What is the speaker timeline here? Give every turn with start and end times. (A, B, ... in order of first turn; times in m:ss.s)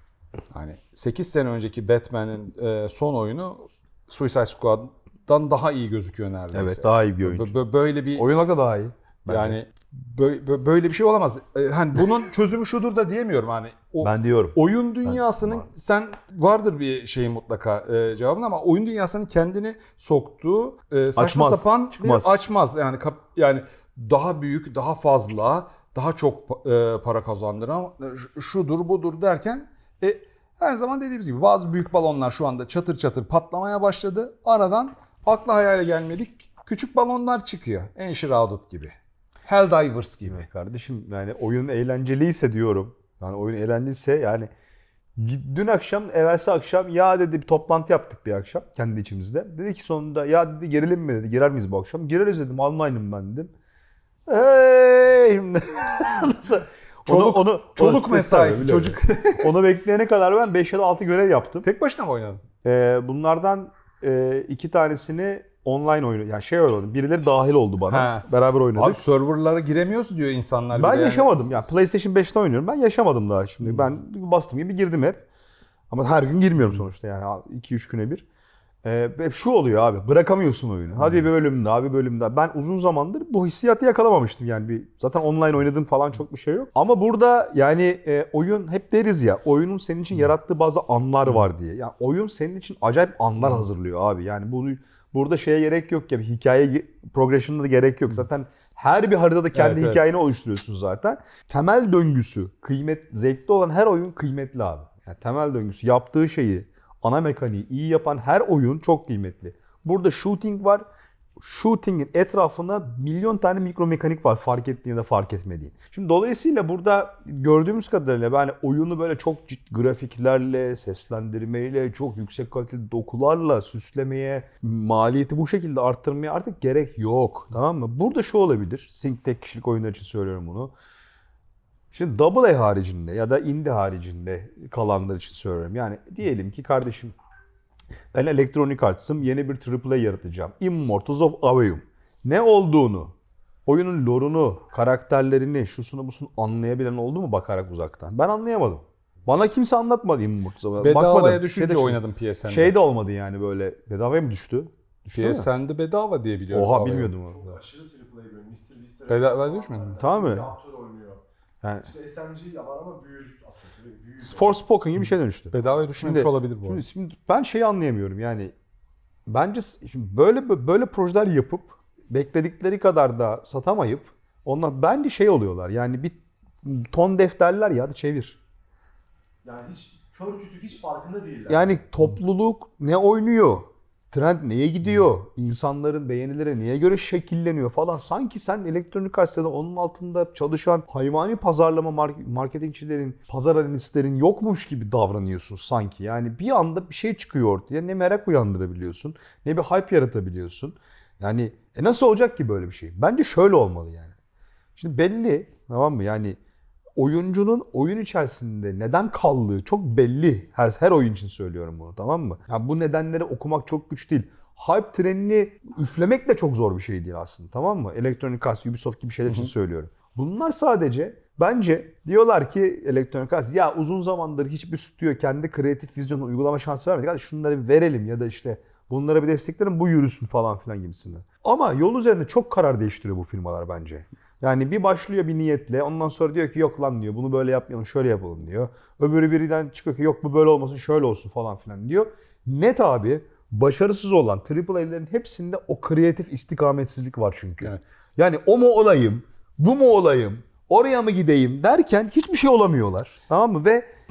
0:00.5-0:08.3 A
0:06.5-0:07.5 B
0:08.2-0:09.6 B
0:09.3-0:38.9 A
0:14.0-0:14.6 B
0:21.2-0:22.4 B
0:39.4-0:40.5 A
0:40.3-0:44.5 B
0:45.2-0:53.5 B
0:54.3-1:01.6 B
0:57.0-0:59.5 A
1:01.6-1:02.4 A
1:02.6-1:09.0 B
1:07.9-1:11.8 A
1:10.8-1:15.2 B
1:15.9-1:18.2 B
1:18.8-1:50.8 B
1:21.0-1:21.2 A
1:39.5-1:40.1 A
1:51.4-2:10.7 B
2:11.9-2:17.1 B
2:18.1-2:23.1 B
2:23.6-2:35.5 B
2:30.8-2:32.8 A
2:35.1-2:37.1 A
2:36.5-2:37.6 B
2:37.3-2:41.2 C
2:39.1-2:40.0 A
2:40.0-2:40.5 B
2:41.6-2:41.9 B
2:41.8-2:44.5 C
2:44.2-2:48.5 B
2:45.5-2:46.8 A
2:49.3-2:58.4 B
2:59.4-3:01.8 C
3:01.5-3:24.1 B
3:24.8-3:26.4 B
3:27.0-4:13.9 B
4:07.6-4:07.9 A